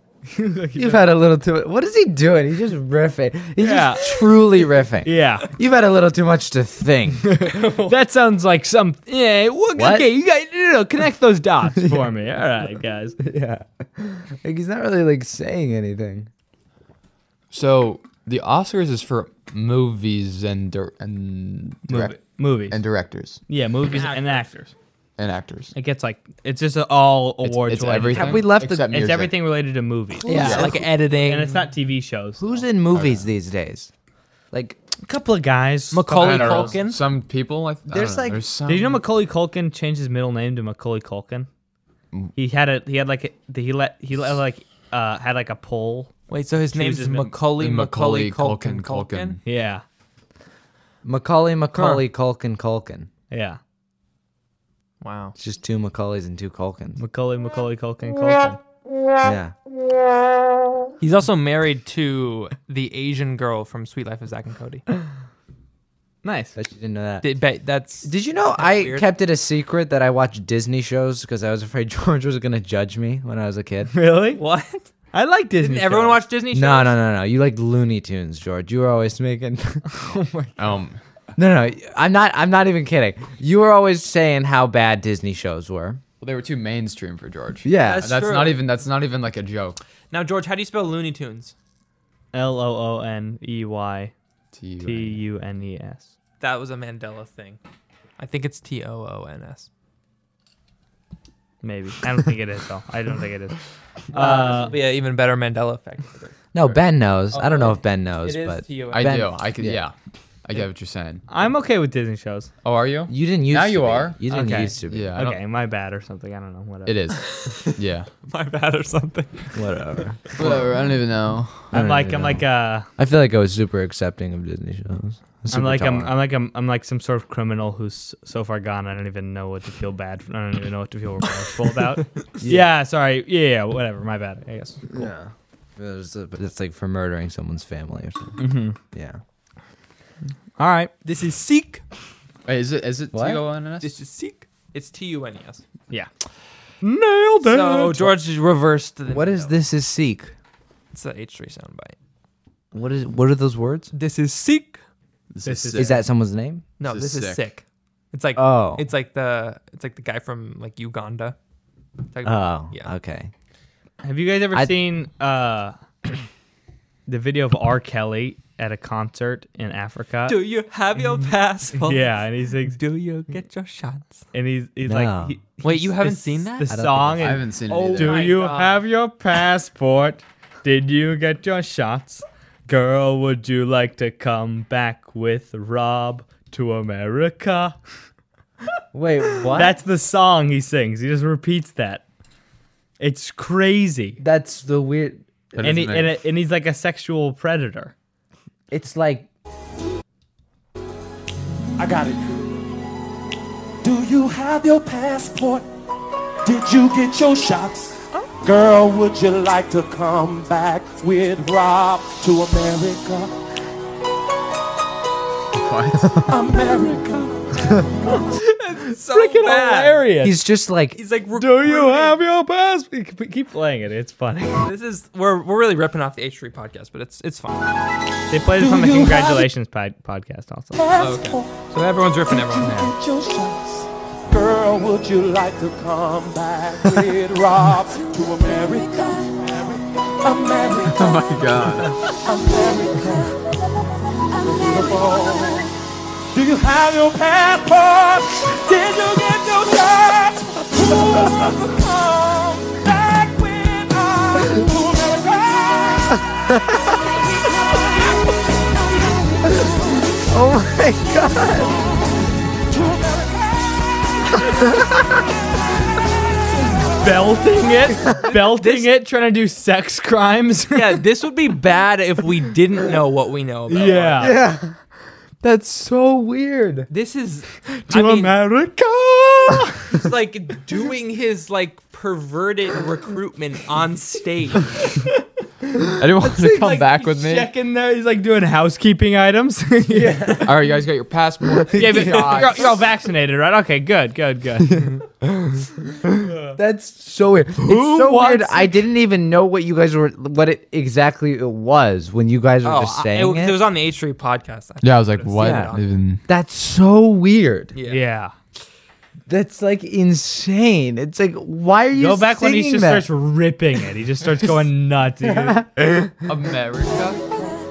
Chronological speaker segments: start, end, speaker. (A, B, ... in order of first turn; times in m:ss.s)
0:00.3-0:01.1 A
0:00.7-0:07.4 B
0:03.6-0:04.0 A
0:05.0-0:05.5 A
0:07.3-0:13.2 A
0:09.7-0:10.1 B
0:11.8-0:12.1 B
0:13.2-0:16.3 B
0:17.5-0:23.4 C
0:21.8-0:22.8 A
0:23.5-0:24.7 A
0:23.9-0:24.4 D
0:25.2-0:25.7 C
0:25.7-0:32.6 A
0:27.4-0:29.4 C
0:28.1-0:29.1 B
0:30.2-0:30.8 C
0:30.2-0:31.7 D
0:32.4-0:33.9 B
0:32.9-0:33.3 C
0:34.5-0:34.8 B
0:35.0-0:36.8 A
0:35.9-0:37.0 D
0:36.2-0:39.0 C
0:37.9-0:38.4 B
0:38.7-0:41.5 A
0:42.3-0:46.1 A
0:46.3-0:49.4 D
0:46.7-0:47.3 A
0:47.5-0:49.4 C
0:49.4-0:49.8 A
0:51.0-0:53.1 B
0:53.3-0:53.6 A
0:55.0-0:55.3 D
0:55.4-0:57.0 B
0:57.0-0:58.6 A
0:59.2-0:59.5 B
1:01.0-1:04.8 D
1:06.2-1:06.6 A
1:06.5-1:07.3 B
1:07.2-1:09.1 D
1:08.0-1:13.9 B
1:13.9-1:14.4 A
1:14.4-1:14.8 D
1:15.1-1:16.2 A
1:15.6-1:17.0 D
1:16.5-1:19.8 B
1:19.9-1:20.6 A
1:20.6-1:21.0 C
1:21.4-1:26.0 B
1:26.2-1:29.8 C
1:27.6-1:28.1 B
1:27.8-1:28.7 D
1:30.1-1:31.5 D
1:32.3-1:34.1 A
1:34.5-1:35.2 C
1:34.8-1:36.1 A
1:36.4-1:37.6 D
1:38.2-1:39.7 D
1:41.6-1:43.6 A
1:44.1-1:44.7 A
1:44.1-1:46.3 D
1:46.5-1:49.8 B
1:47.3-1:49.1 D
1:48.9-1:51.2 C
1:51.3-1:52.5 A
1:52.6-1:54.2 C
1:53.1-1:55.1 B
1:54.3-1:57.0 A
1:54.9-1:55.4 C
1:56.8-1:58.1 C
1:58.2-2:00.0 D
1:59.5-2:00.2 B
2:00.4-2:01.7 C
2:01.7-2:02.4 B
2:01.7-2:02.9 A
2:03.0-2:06.1 B
2:05.5-2:15.1 A
2:12.4-2:12.7 B
2:14.9-2:18.4 B
2:18.4-2:18.8 A
2:18.9-2:19.2 B
2:20.6-2:20.9 A
2:21.0-2:21.8 D
2:22.4-2:24.0 C
2:23.1-2:23.4 B
2:23.8-2:25.6 D
2:26.8-2:28.1 A
2:27.4-2:29.6 D
2:29.1-2:30.3 B
2:30.9-2:32.0 D
2:32.7-2:33.9 B
2:33.9-2:34.8 D
2:35.3-2:36.0 C
2:35.4-2:35.9 A
2:35.8-2:36.6 B
2:36.8-2:41.4 D
2:36.8-2:37.4 C
2:38.3-2:38.8 B
2:42.1-2:42.9 D
2:42.2-2:43.3 B
2:44.0-2:45.7 A
2:47.1-2:50.4 A
2:50.3-2:54.2 D
2:51.8-2:52.8 A
2:54.3-3:07.7 A
2:54.8-2:55.4 B
2:55.6-2:56.8 D
2:56.7-2:57.6 B
2:57.2-2:58.4 C
2:57.7-2:58.8 D
3:08.9-3:09.8 B
3:09.5-3:12.0 A
3:13.0-3:14.2 A
3:14.2-3:15.6 B
3:15.5-3:16.2 C
3:15.6-3:17.9 A
3:18.7-3:19.3 B
3:21.8-3:22.6 E
3:23.8-3:25.6 E
3:26.4-3:33.3 E
3:35.6-3:36.2 C
3:36.3-3:38.2 E
3:38.3-3:40.1 D
3:39.1-3:40.4 A
3:40.2-3:41.0 B
3:40.9-3:42.2 D
3:41.4-3:44.7 A
3:44.6-3:47.7 D
3:48.3-3:50.8 A
3:48.5-3:49.5 E
3:50.7-4:01.3 E
3:51.0-3:52.8 D
4:00.9-4:02.0 C
4:02.2-4:03.4 E
4:04.4-4:05.7 E
4:06.3-4:16.2 E
4:16.3-4:16.8 B
4:17.1-4:19.6 E
4:20.3-4:21.8 B
4:22.7-4:23.6 E
4:26.5-4:31.0 A
4:28.2-4:28.9 D
4:30.7-4:34.4 D
4:33.7-4:34.4 A
4:34.2-4:34.8 B
4:35.4-4:36.9 B
4:36.9-4:38.4 D
4:37.9-4:39.9 A
4:39.9-4:44.8 D
4:45.9-4:47.5 C
4:46.2-4:50.5 A
4:49.9-4:50.6 B
4:50.4-4:52.7 C
4:51.7-4:55.0 A
4:54.8-4:55.6 B
4:56.2-4:56.6 A
4:56.5-5:03.6 B
4:57.6-4:58.8 A
5:02.6-5:06.0 D
5:04.8-5:06.2 C
5:05.4-5:05.7 B
5:06.3-5:07.7 B
5:07.7-5:08.0 D
5:07.9-5:08.3 A
5:09.3-5:13.1 B
5:12.0-5:15.6 A
5:15.3-5:16.1 B
5:16.2-5:17.2 C